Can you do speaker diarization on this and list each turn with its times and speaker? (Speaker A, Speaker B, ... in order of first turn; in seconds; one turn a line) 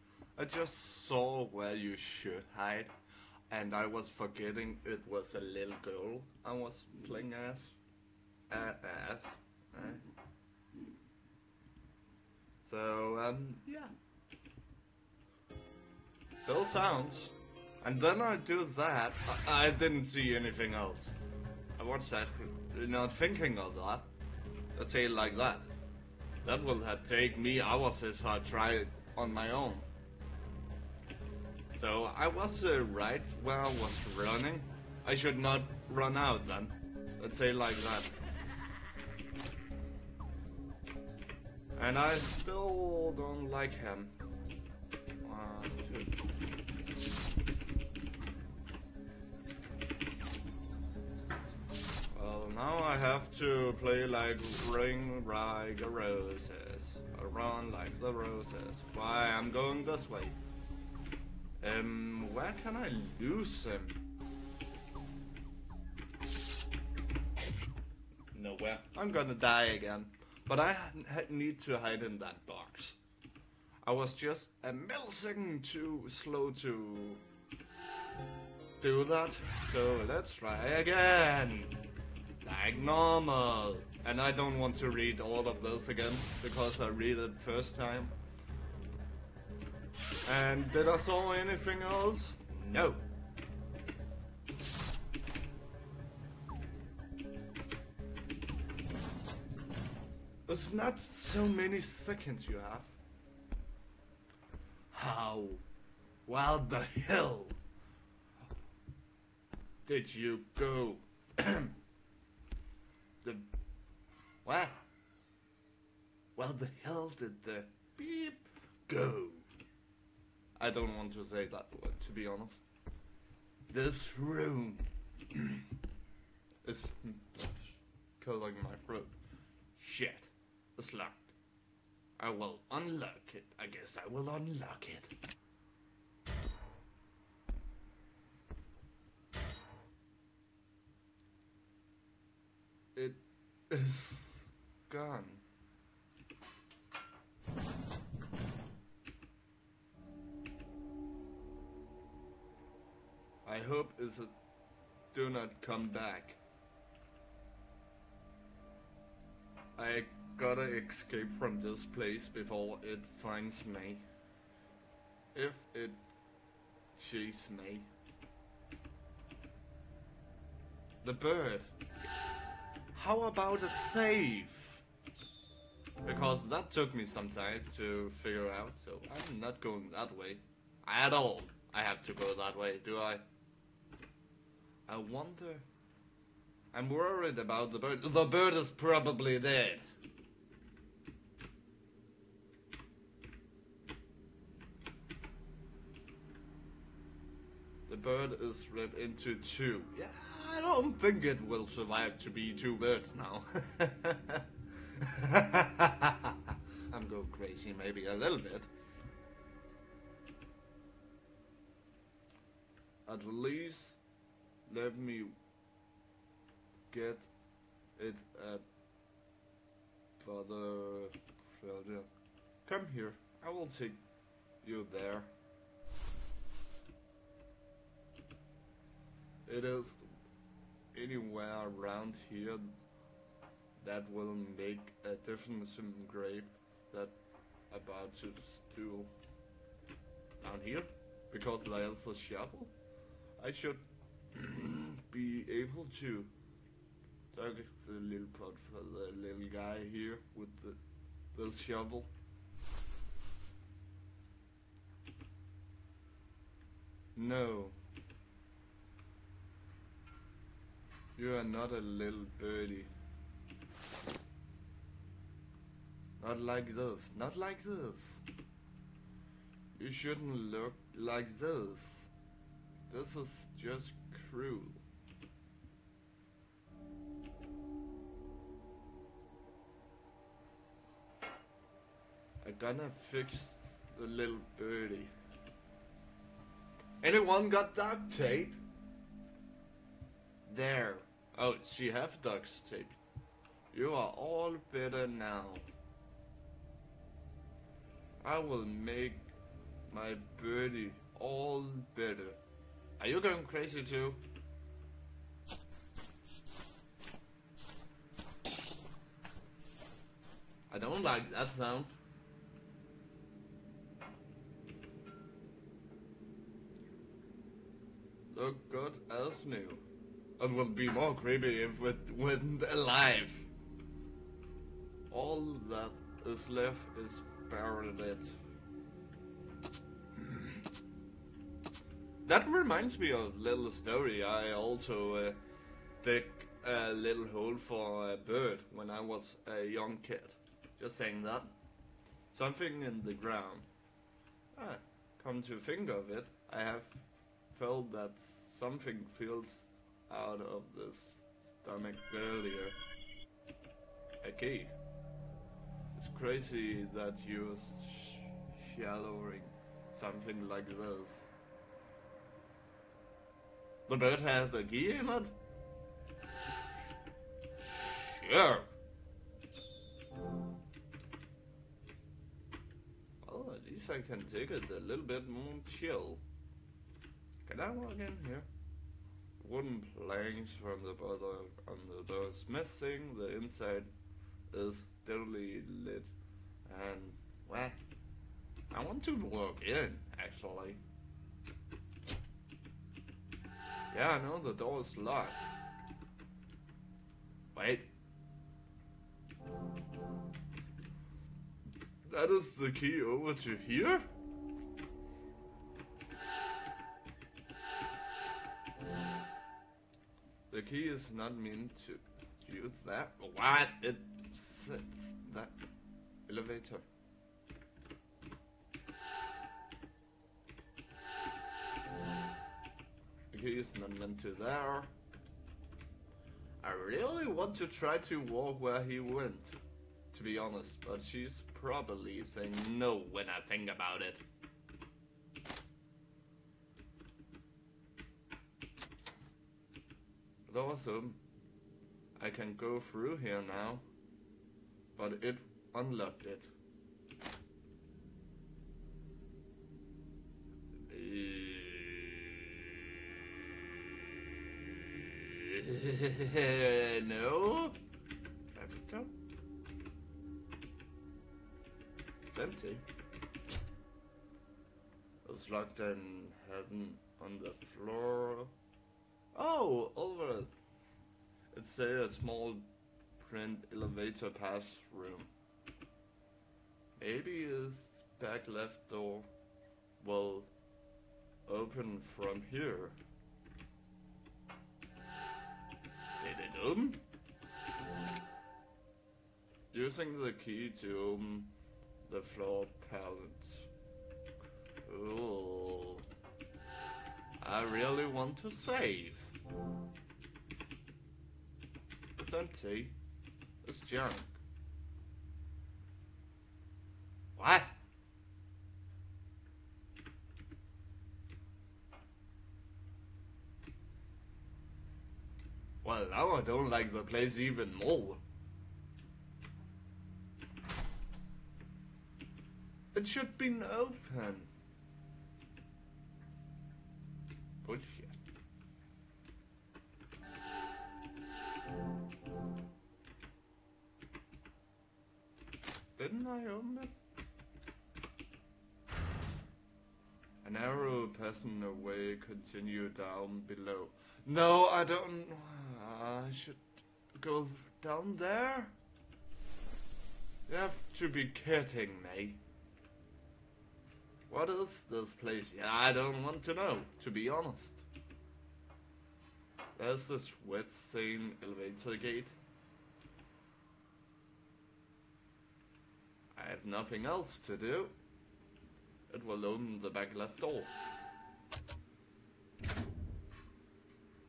Speaker A: 0.4-2.9
Speaker A: 3.5-7.8
Speaker A: 8.5-10.0
Speaker A: 12.6-13.9
Speaker A: 16.3-21.1
Speaker A: 21.8-24.1
Speaker A: 24.8-25.7
Speaker A: 26.4-29.9
Speaker A: 31.7-38.1
Speaker A: 41.8-44.1
Speaker A: 45.2-46.2
Speaker A: 52.1-60.4
Speaker A: 61.6-64.0
Speaker A: 68.3-73.0
Speaker A: 73.8-77.2
Speaker A: 78.8-81.8
Speaker A: 82.4-88.1
Speaker A: 90.3-93.0
Speaker A: 100.5-102.9
Speaker A: 104.9-105.6
Speaker A: 106.3-107.6
Speaker A: 109.8-111.8
Speaker A: 114.5-114.8
Speaker A: 116.4-119.5
Speaker A: 120.6-122.7
Speaker A: 123.7-125.7
Speaker A: 126.6-129.2
Speaker A: 129.8-131.3
Speaker A: 132.2-135.1
Speaker A: 142.9-145.4
Speaker A: 153.4-154.3
Speaker A: 155.1-156.4
Speaker A: 159.8-164.0
Speaker A: 165.3-166.0
Speaker A: 166.9-167.9
Speaker A: 171.0-171.7
Speaker A: 172.9-174.8
Speaker A: 176.1-183.2
Speaker A: 184.9-185.7
Speaker A: 186.7-189.8
Speaker A: 197.9-208.7
Speaker A: 213.1-214.0
Speaker A: 214.7-215.4
Speaker A: 216.9-217.3
Speaker A: 218.0-218.6
Speaker A: 220.2-222.1
Speaker A: 222.7-224.0
Speaker A: 224.6-225.3
Speaker A: 229.5-230.0
Speaker A: 230.9-232.7
Speaker A: 233.8-237.2
Speaker A: 237.7-239.1
Speaker A: 240.4-242.7
Speaker A: 243.4-243.8
Speaker A: 244.3-246.3
Speaker A: 247.3-250.8
Speaker A: 251.3-252.1
Speaker A: 257.2-257.8
Speaker A: 261.2-262.9
Speaker A: 266.2-268.2
Speaker A: 269.8-272.1
Speaker A: 272.9-274.8
Speaker A: 282.4-285.1
Speaker A: 287.0-288.6
Speaker A: 290.5-293.0
Speaker A: 293.7-295.7
Speaker A: 298.2-299.3
Speaker A: 299.9-302.4
Speaker A: 303.0-304.2
Speaker A: 310.7-311.9
Speaker A: 318.3-319.8
Speaker A: 320.4-323.5
Speaker A: 325.1-328.4
Speaker A: 330.2-330.6
Speaker A: 332.3-335.4
Speaker A: 336.0-341.5
Speaker A: 342.3-343.7
Speaker A: 344.6-352.8
Speaker A: 354.2-354.8
Speaker A: 355.9-361.3
Speaker A: 363.9-365.3
Speaker A: 367.7-368.7
Speaker A: 373.2-376.2
Speaker A: 377.4-378.5
Speaker A: 379.4-383.9
Speaker A: 384.5-386.1
Speaker A: 386.7-387.8
Speaker A: 388.7-390.8
Speaker A: 393.9-395.4
Speaker A: 397.5-397.9
Speaker A: 402.1-404.1
Speaker A: 410.5-415.6
Speaker A: 416.3-416.9
Speaker A: 423.3-424.9
Speaker A: 426.6-429.6
Speaker A: 430.1-434.2
Speaker A: 440.5-441.2
Speaker A: 442.2-443.9
Speaker A: 444.9-446.5
Speaker A: 450.9-452.5
Speaker A: 455.0-457.8
Speaker A: 458.5-459.1
Speaker A: 462.2-462.8
Speaker A: 465.2-468.5
Speaker A: 469.3-470.5
Speaker A: 471.5-472.6
Speaker A: 473.2-475.3
Speaker A: 477.0-479.3
Speaker A: 480.0-480.5
Speaker A: 481.5-482.9
Speaker A: 486.2-487.0
Speaker A: 489.7-491.5
Speaker A: 492.1-493.7
Speaker A: 494.9-496.1
Speaker A: 497.4-499.3
Speaker A: 502.2-502.9
Speaker A: 503.6-504.4
Speaker A: 507.4-507.7
Speaker A: 515.8-518.2
Speaker A: 522.9-524.5
Speaker A: 527.6-528.2
Speaker A: 536.0-536.9
Speaker A: 540.4-546.6
Speaker A: 547.1-548.8
Speaker A: 550.5-552.4
Speaker A: 554.3-557.9
Speaker A: 559.8-562.4
Speaker A: 566.4-567.9
Speaker A: 569.1-570.7